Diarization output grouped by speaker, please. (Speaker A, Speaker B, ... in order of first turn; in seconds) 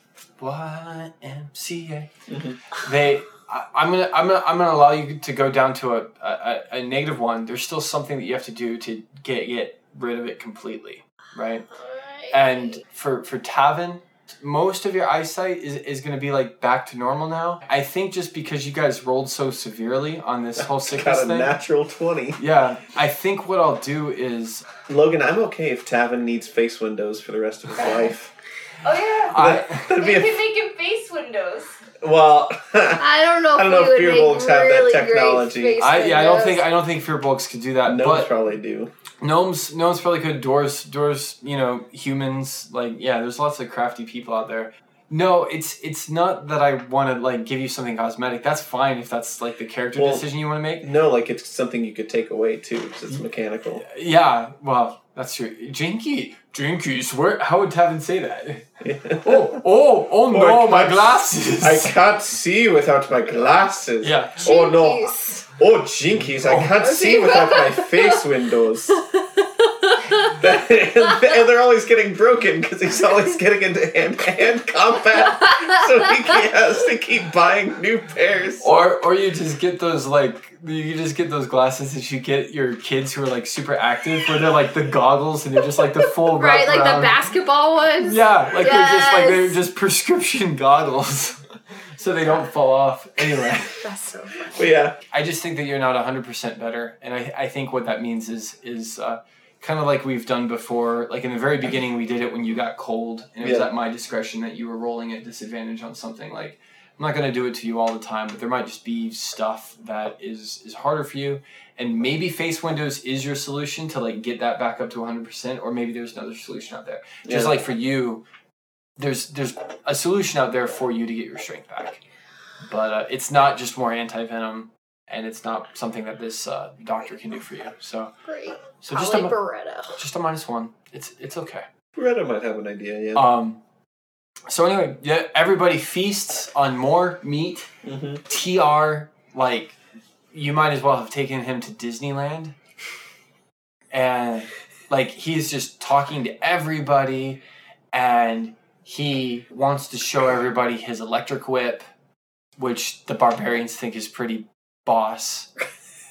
Speaker A: 0.4-2.1, 2.7-11.7, 12.3-21.6, 22.4-24.7, 29.3-29.9, 35.8-38.3, 39.2-50.9, 53.8-61.9, 64.0-64.5, 66.3-66.8, 78.6-87.1, 88.0-91.4, 92.0-93.8, 95.1-118.2, 119.0-122.0, 122.6-128.1, 128.8-129.4, 129.9-131.7, 133.1-133.6, 134.5-137.7, 138.3-139.8, 140.3-142.5, 143.9-147.4, 147.9-151.8, 152.6-155.5
Speaker B: 2.3-2.6, 20.6-22.4, 24.9-28.3, 29.3-30.5, 32.0-35.8, 37.8-38.9, 50.0-50.3, 50.8-53.8, 58.8-59.6, 60.3-69.0, 70.3-78.7, 94.5-95.0, 103.4-103.7, 117.2-117.6, 131.9-133.3, 137.8-138.2
Speaker C: 11.7-12.8, 33.0-36.6, 64.4-65.5, 66.6-68.2, 69.0-70.4, 75.2-76.1, 86.2-89.6, 93.6-94.5, 128.2-130.0
Speaker D: 27.8-28.0, 28.8-29.4, 29.9-31.8